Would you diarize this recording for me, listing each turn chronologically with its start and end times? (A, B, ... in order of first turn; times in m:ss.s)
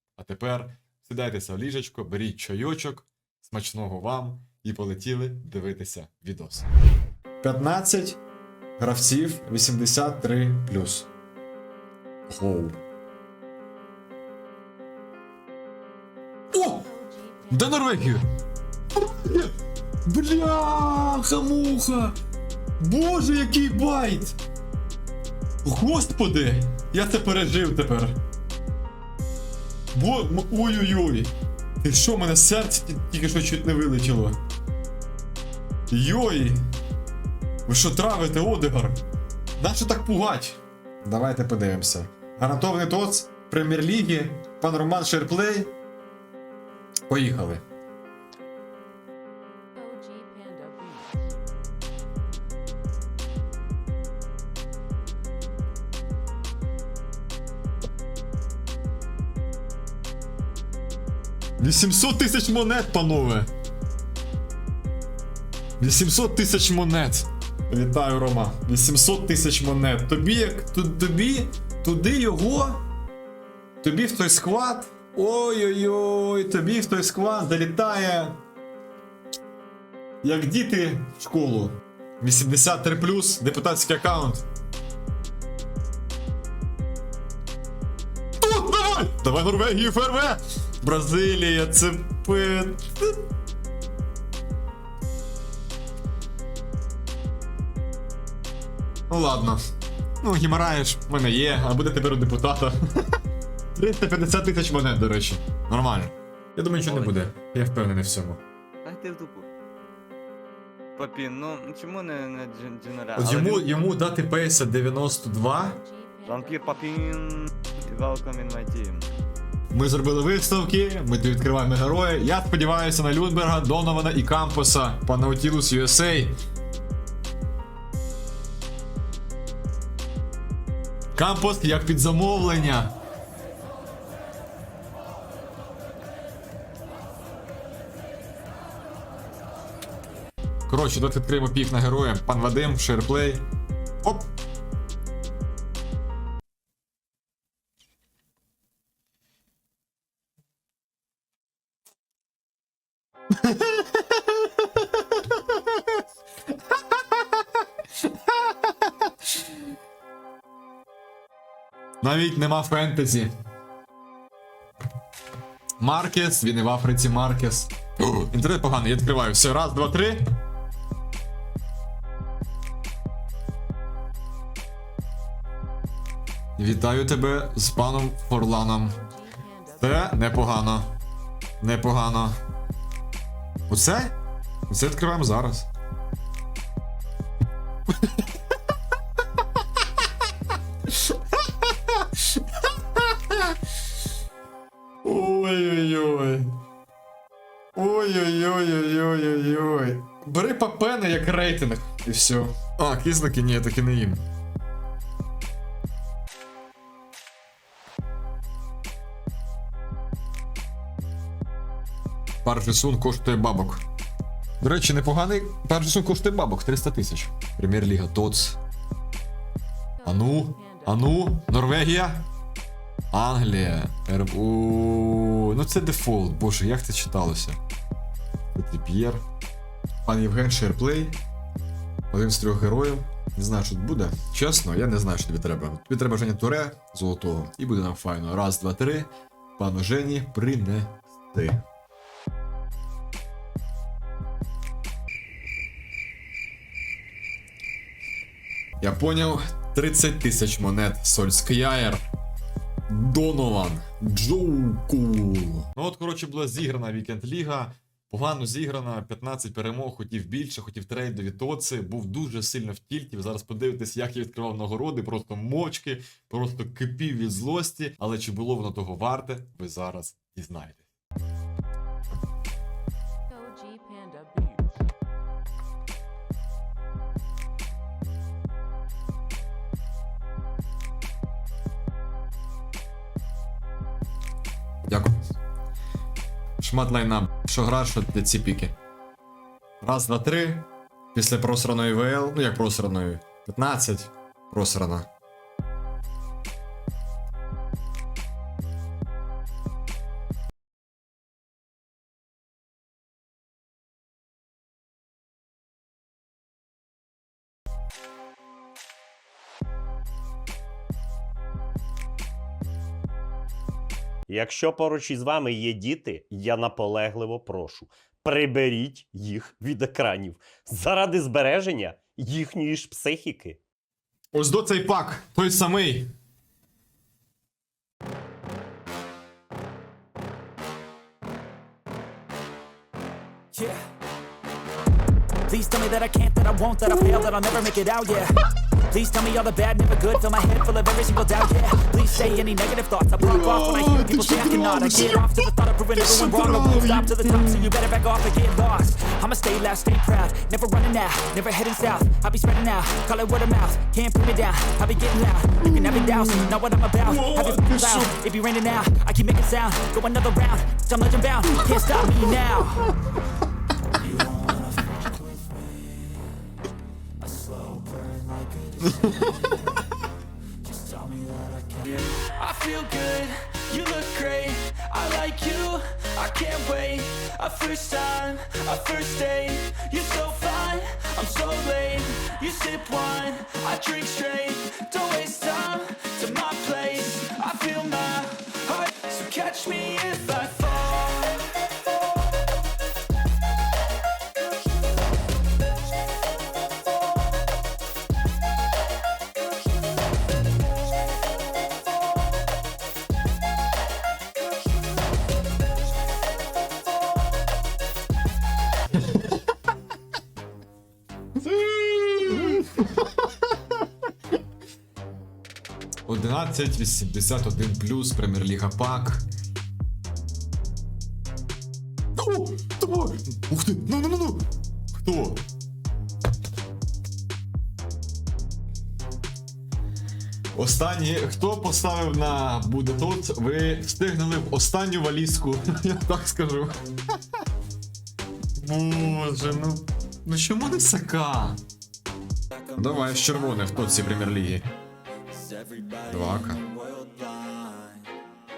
0:00.2-0:06.7 A
0:07.4-0:08.2 A
0:08.8-0:11.1 A
0:12.3-0:12.8 A
0:16.5-0:16.9 A
0:17.5-0:18.2 A
0:19.0-0:19.5 A
0:20.0-0:22.1 A
0:22.8-0:24.4 A
0:25.6-0:28.1 A
0:29.9-0:34.4 A
0:35.9-0:36.6 A
0:37.6-0:39.0 A
0:39.6-0:45.7 A
0:47.1-0:47.6 A
0:49.8-0:51.2 B
1:01.6-1:03.5 A
1:05.8-1:12.8 A
1:13.8-1:18.4 A
1:20.2-1:24.4 A
1:28.4-1:33.1 A
1:39.1-1:39.6 A
1:40.2-1:43.0 A
1:43.8-1:48.4 A
1:46.8-1:47.2 C
1:48.8-1:49.5 C
1:51.0-1:53.7 C
1:53.2-1:55.8 A
1:56.0-1:56.8 B
1:56.2-1:59.1 C
1:59.7-2:06.3 A
2:11.2-2:12.9 A
2:20.7-2:23.4 A
2:24.0-2:24.3 A
2:33.4-2:34.6 A
2:42.0-2:43.3 A
2:45.8-2:50.2 A
2:56.6-2:59.0 A
2:58.8-2:59.9 B
2:59.8-3:00.9 A
3:01.6-3:02.4 A
3:03.7-3:04.1 A
3:04.7-3:05.7 A
3:11.6-3:12.4 A
3:12.9-3:13.5 A
3:15.0-3:16.5 A
3:17.7-3:24.2 A
3:32.4-3:33.8 A
3:34.6-3:38.6 A
3:40.0-3:42.3 A
3:43.1-3:47.6 A
3:48.5-3:49.2 A
3:50.0-3:51.2 A
3:52.1-4:01.6 A
4:08.8-4:12.0 A
4:12.9-4:30.8 A
4:33.3-4:34.7 B
4:44.9-4:45.3 A
4:46.6-4:48.7 A
4:49.8-4:55.1 A
5:14.3-5:23.6 D
5:24.3-5:26.1 A
5:33.5-5:33.8 E
5:35.5-5:38.4 E
5:36.9-5:37.6 A
5:38.9-6:02.9 E
5:43.2-5:45.3 A
5:46.0-5:47.7 A
5:55.6-5:58.2 A
6:04.0-6:06.4 E
6:07.2-6:09.8 E
6:08.8-6:09.4 A
6:10.6-6:31.5 E
6:51.4-6:53.1 A
6:56.1-6:59.2 A
7:02.2-7:05.4 A
7:10.5-7:16.8 A
7:18.6-7:21.6 A
7:22.7-7:24.7 A
7:25.5-7:28.1 E
7:26.0-7:26.6 A